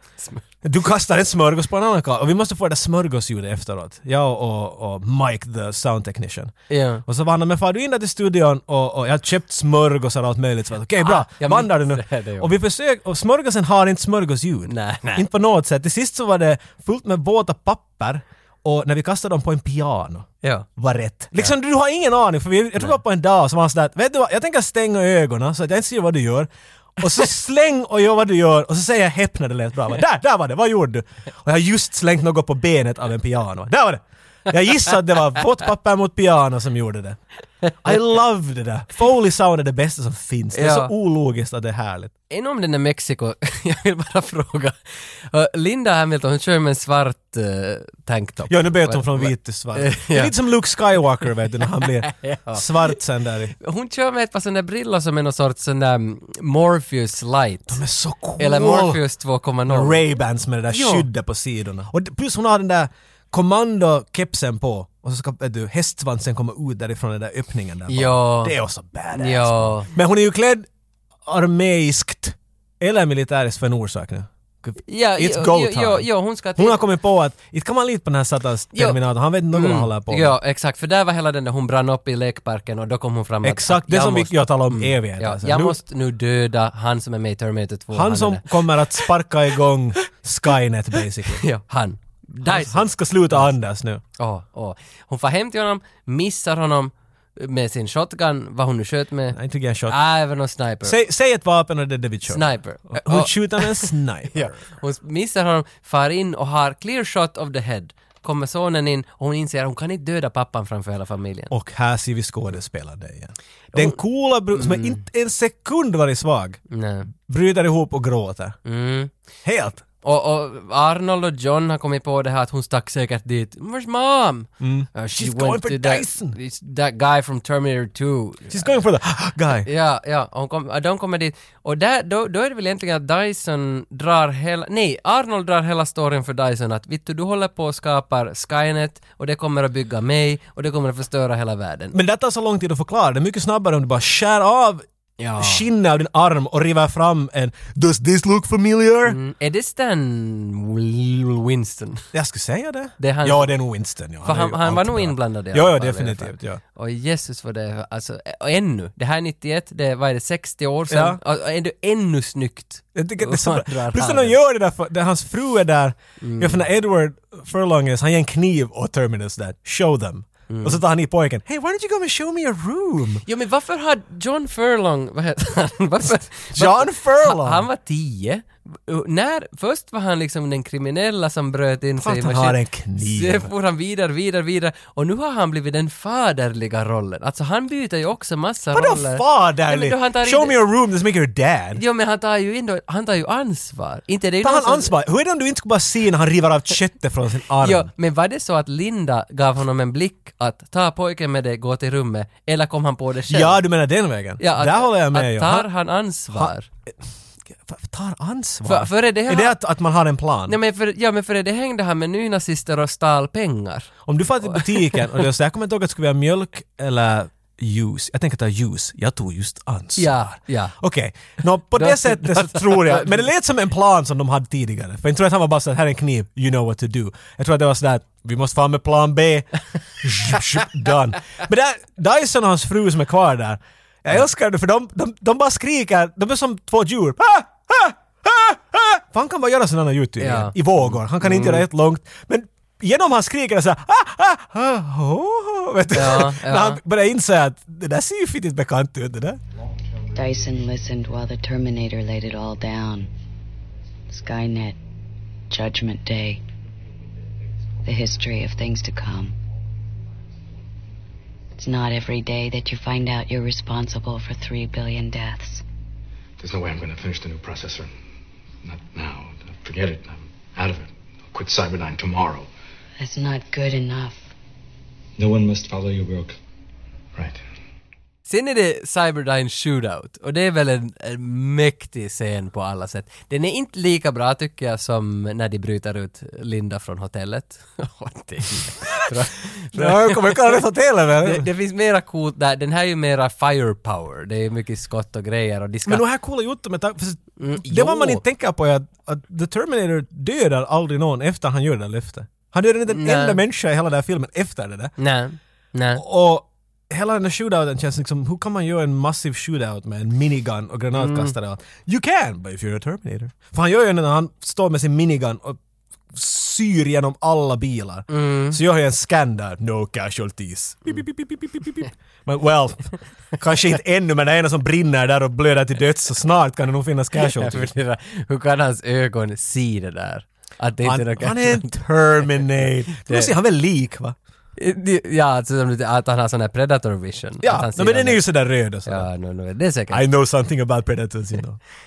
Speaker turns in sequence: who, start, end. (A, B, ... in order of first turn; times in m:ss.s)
0:00.6-0:37.2 A
0:06.7-0:07.0 B
0:11.0-0:12.5 B
0:14.7-0:15.2 B
0:37.6-0:38.0 B
0:37.8-0:42.1 A
0:40.5-0:40.9 B
0:42.3-0:44.8 B
0:45.3-0:50.3 B
0:48.5-0:53.6 A
0:51.8-0:53.0 B
0:53.6-0:57.8 B
0:57.7-0:59.0 A
0:58.4-1:00.0 B
0:59.7-1:10.7 A
1:00.7-1:01.1 B
1:07.9-1:08.6 B
1:09.1-1:09.9 B
1:11.2-1:20.4 A
1:14.9-1:16.8 B
1:18.7-1:19.0 B
1:19.5-1:28.5 B
1:23.4-1:25.8 A
1:27.9-1:31.4 A
1:31.3-1:33.5 B
1:32.4-1:34.0 A
1:34.2-1:39.4 B
1:39.3-1:40.0 A
1:39.9-1:41.0 B
1:40.8-1:44.6 A
1:42.3-1:51.5 B
1:51.5-1:56.6 A
1:53.7-1:54.0 B
1:54.5-1:55.0 B
1:56.7-1:57.1 B
1:57.3-1:58.6 A
1:58.7-1:59.1 B
1:59.4-1:59.8 A
2:00.0-2:08.8 B
2:04.6-2:06.4 A
2:08.5-2:09.7 A
2:09.6-2:22.0 B
2:21.9-2:24.8 A
2:25.2-2:25.6 B
2:25.4-2:29.2 A
2:29.1-2:32.0 B
2:32.1-2:36.6 A
2:33.0-2:33.5 B
2:34.2-2:44.4 B
2:40.9-2:41.2 A
2:43.0-2:53.2 A
2:46.2-2:46.6 B
2:50.5-2:50.8 B
2:53.3-3:10.6 B
2:56.5-2:57.7 A
3:02.0-3:03.5 A
3:08.7-3:11.8 A
3:11.8-3:14.9 B
3:14.4-3:17.9 A
3:17.6-3:23.6 B
3:23.3-3:25.7 A
3:24.4-3:26.7 B
3:27.6-3:30.6 A
3:28.6-3:29.6 B
3:30.5-3:33.9 B
3:34.1-3:49.5 A
3:34.4-3:35.0 B
3:40.0-3:40.8 B
3:41.8-3:43.3 B
3:50.0-4:09.4 A
4:00.2-4:01.6 B
4:05.9-4:06.8 B
4:10.1-4:13.1 C
4:14.1-4:14.8 C
4:15.5-4:16.4 C
4:17.8-4:19.4 C
4:21.6-4:25.6 C
4:26.4-4:27.9 D
4:28.6-4:32.5 D
4:33.0-4:34.3 C
4:35.2-4:36.4 D
4:37.2-4:37.4 D
4:38.3-4:50.6 B
4:49.7-4:51.5 A
4:51.2-4:56.0 B
4:55.9-5:04.9 A
4:57.4-4:58.2 B
5:02.9-5:03.4 B
5:05.0-5:06.0 B
5:06.0-5:15.6 A
5:11.0-5:11.3 B
5:16.1-5:27.7 A
5:18.1-5:18.6 B
5:27.2-5:31.8 B
5:30.8-5:34.2 A
5:33.0-5:33.3 B
5:34.6-5:38.2 B
5:37.4-5:39.1 A
5:38.8-5:40.0 B
5:39.9-5:41.6 A